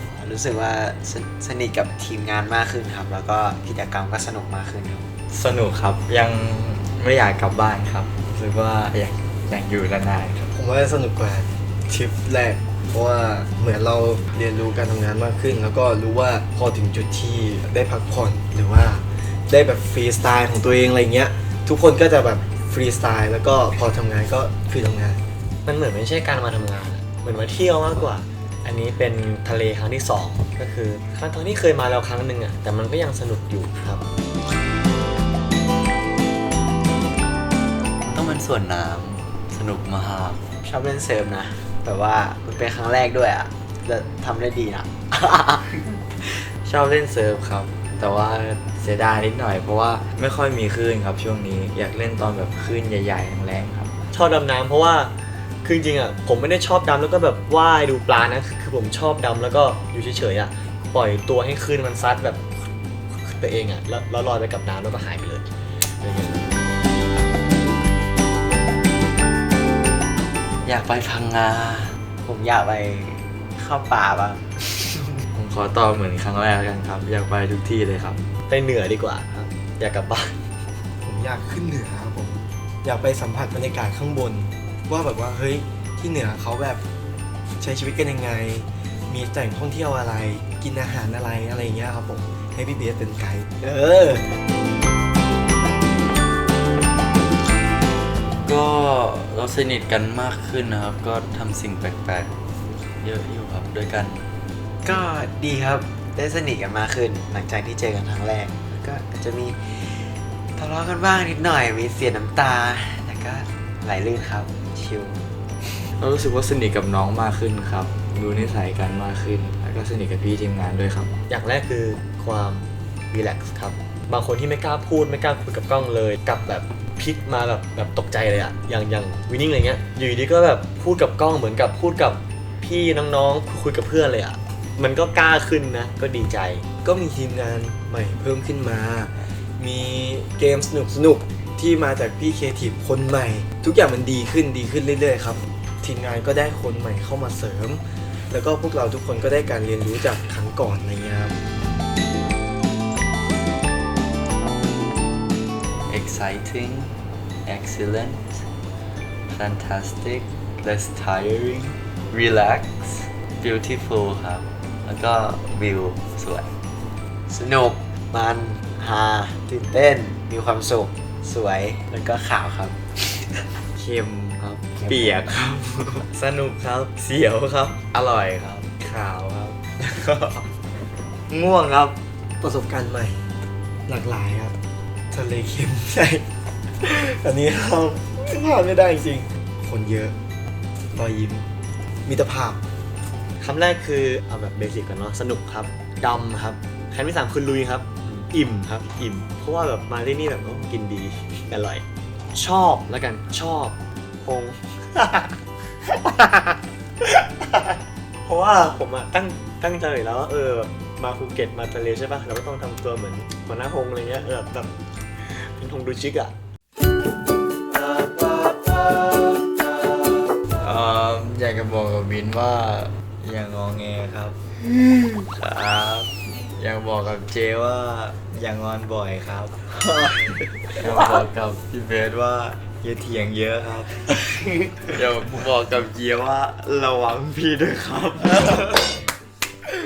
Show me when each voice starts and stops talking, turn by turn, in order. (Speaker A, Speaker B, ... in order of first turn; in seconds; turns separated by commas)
Speaker A: 0.1-5.1, Speaker B: 5.3-10.5, Speaker C: 10.5-25.2, Speaker D: 25.6-34.0, Speaker E: 38.1-40.4, Speaker A: 40.6-46.5, Speaker B: 46.6-53.9, Speaker D: 54.1-55.1, Speaker D: 55.6-62.5, Speaker D: 63.1-65.5, Speaker D: 66.0-66.5, Speaker E: 70.6-72.0, Speaker A: 72.2-74.9, Speaker B: 75.3-78.2, Speaker D: 78.5-80.4, Speaker C: 81.0-86.8, Speaker C: 87.6-94.2, Speaker E: 98.4-102.3, Speaker E: 103.0-104.2, Speaker A: 104.8-115.2, Speaker B: 116.0-121.2, Speaker D: 121.3-136.6, Speaker C: 136.8-151.4, Speaker E: 155.9-156.9, Speaker E: 157.4-158.4, Speaker E: 159.3-166.5, Speaker A: 167.3-172.8, Speaker B: 173.7-180.3, Speaker B: 181.3-182.0, Speaker C: 182.4-183.2, Speaker C: 183.9-184.5, Speaker C: 185.1-186.2, Speaker C: 186.8-190.1, Speaker C: 190.9-191.5, Speaker C: 192.0-192.6, Speaker D: 193.4-214.7, Speaker D: 215.2-216.3, Speaker B: 220.6-224.4, Speaker B: 225.3-229.6, Speaker B: 230.7-238.7